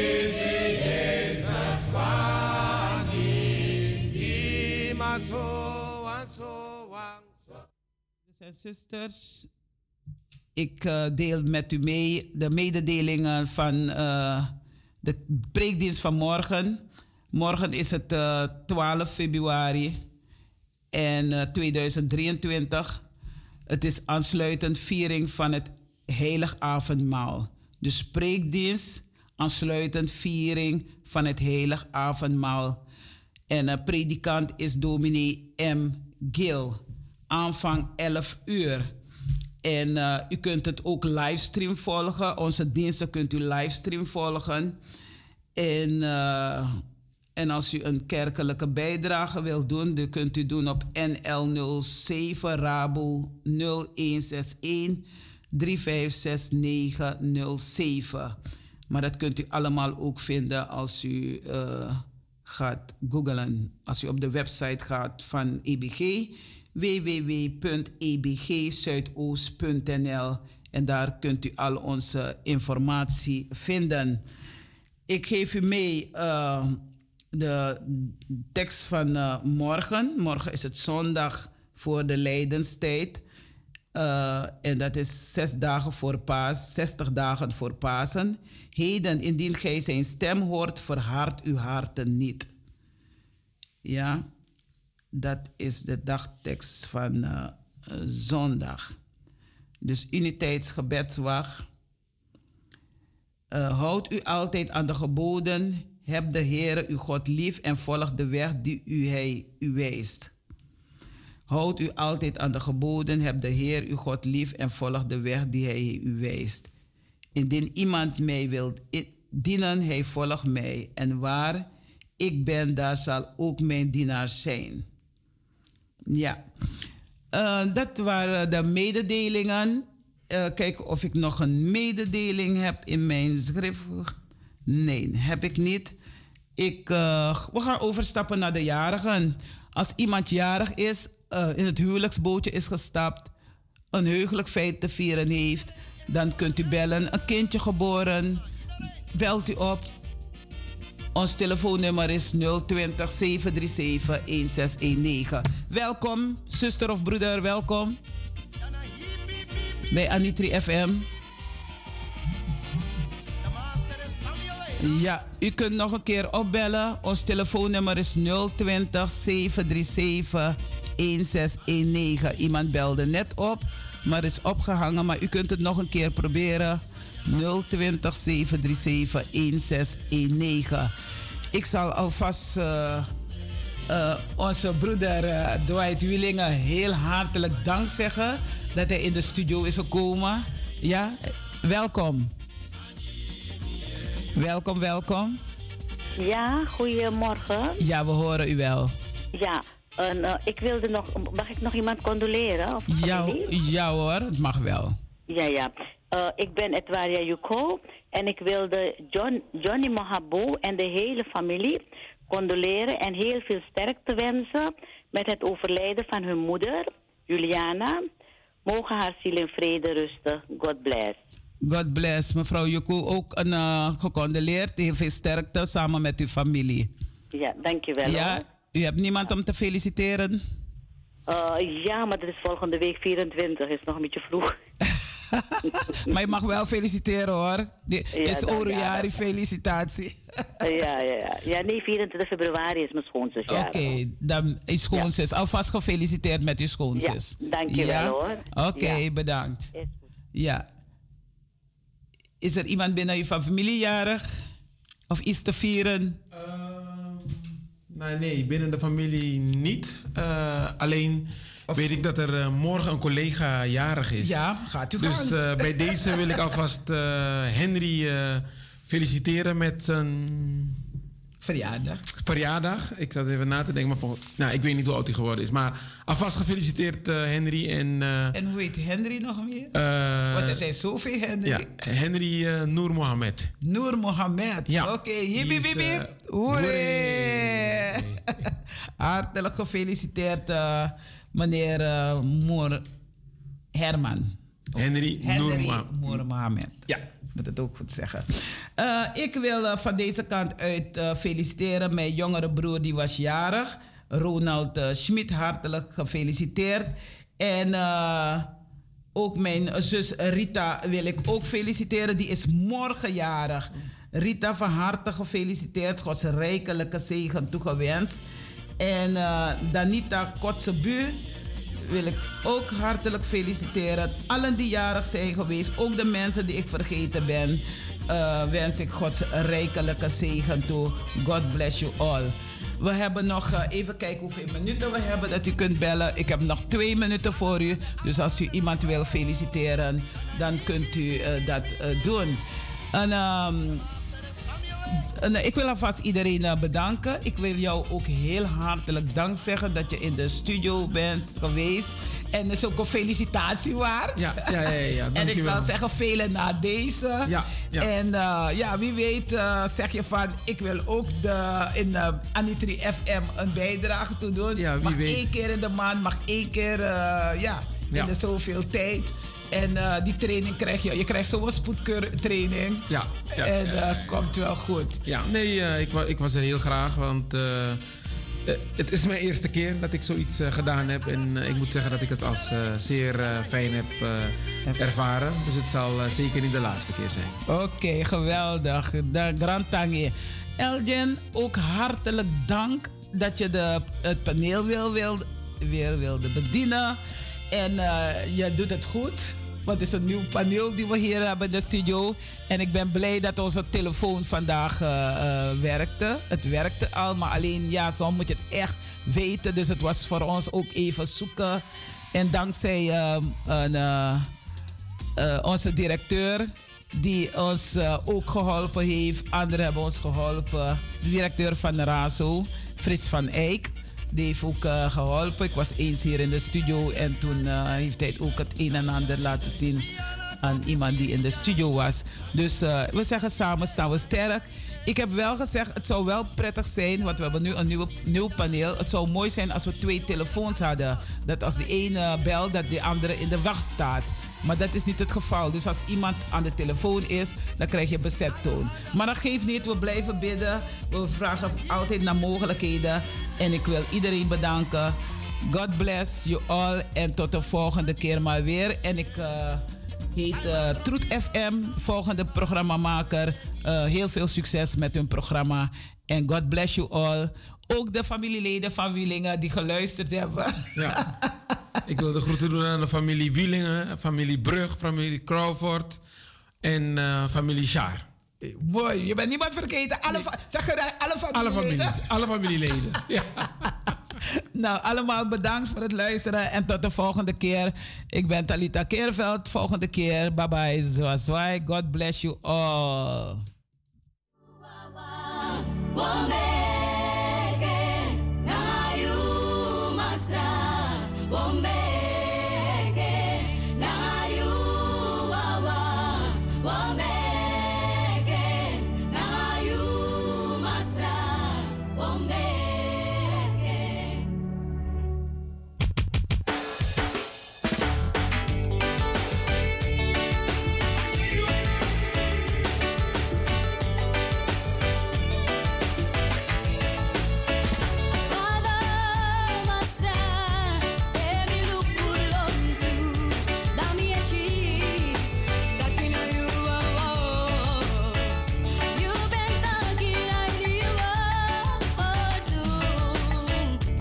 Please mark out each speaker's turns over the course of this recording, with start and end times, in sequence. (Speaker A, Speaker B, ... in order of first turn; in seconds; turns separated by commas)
Speaker A: 0.4-7.3, Speaker B: 8.3-9.5, Speaker B: 10.6-14.5, Speaker B: 15.0-20.0, Speaker B: 20.9-23.0, Speaker B: 23.7-32.8, Speaker B: 33.5-38.9, Speaker B: 39.6-44.8, Speaker B: 45.5-46.8, Speaker B: 47.4-58.4, Speaker B: 58.9-74.2, Speaker B: 75.1-76.8, Speaker B: 77.3-83.2, Speaker B: 83.9-92.5, Speaker B: 93.8-94.2, Speaker B: 95.1-99.0, Speaker B: 99.8-101.7, Speaker B: 103.5-110.3, Speaker B: 111.5-116.7, Speaker B: 117.3-121.7, Speaker B: 122.2-124.8, Speaker B: 126.1-126.4, Speaker B: 127.3-134.1, Speaker B: 134.7-135.9, Speaker B: 136.6-143.3, Speaker B: 143.9-148.4, Speaker B: 149.1-149.9, Speaker B: 151.1-158.0, Speaker B: 159.9-161.1, Speaker B: 164.8-180.9, Speaker B: 181.5-183.1, Speaker B: 183.9-192.3, Speaker B: 194.4-195.4, Speaker C: 196.2-197.8, Speaker B: 197.8-198.9, Speaker C: 199.3-203.5, Speaker B: 202.9-204.9, Speaker C: 205.3-218.1, Speaker C: 218.7-221.2, Speaker B: 221.6-226.9, Speaker C: 227.3-228.4, Speaker B: 228.0-230.4, Speaker C: 231.3-234.6, Speaker B: 235.3-240.2, Speaker C: 238.2-239.1, Speaker C: 240.6-243.9, Speaker B: 243.5-249.7, Speaker C: 247.0-249.0, Speaker B: 250.3-250.7, Speaker B: 252.4-254.2, Speaker B: 255.1-256.2, Speaker D: 256.3-264.4, Speaker B: 264.2-266.4, Speaker D: 265.0-270.8, Speaker B: 271.4-272.0, Speaker D: 272.1-278.4, Speaker B: 278.3-279.7, Speaker D: 279.7-280.6, Speaker B: 280.3-281.7, Speaker D: 281.4-283.5, Speaker B: 283.6-292.8, Speaker D: 284.7-288.5, Speaker B: 293.7-294.3, Speaker D: 294.7-296.1, Speaker B: 295.2-308.5, Speaker B: 309.1-318.2, Speaker B: 318.8-321.2, Speaker B: 321.8-342.4, Speaker B: 342.9-343.9, Speaker B: 345.0-375.0, Speaker D: 354.1-355.7, Speaker D: 357.2-357.9, Speaker D: 364.6-365.2, Speaker D: 372.9-374.0, Speaker D: 375.0-377.8, Speaker D: 378.4-387.4, Speaker B: 387.5-397.0, Speaker B: 397.5-414.3, Speaker B: 415.2-429.9, Speaker B: 430.4-471.4, Speaker D: 470.8-471.0, Speaker D: 471.9-476.0, Speaker D: 476.6-478.1, Speaker B: 478.4-482.7, Speaker D: 481.3-483.8, Speaker B: 484.2-493.4, Speaker E: 494.6-514.3, Speaker E: 528.2-543.8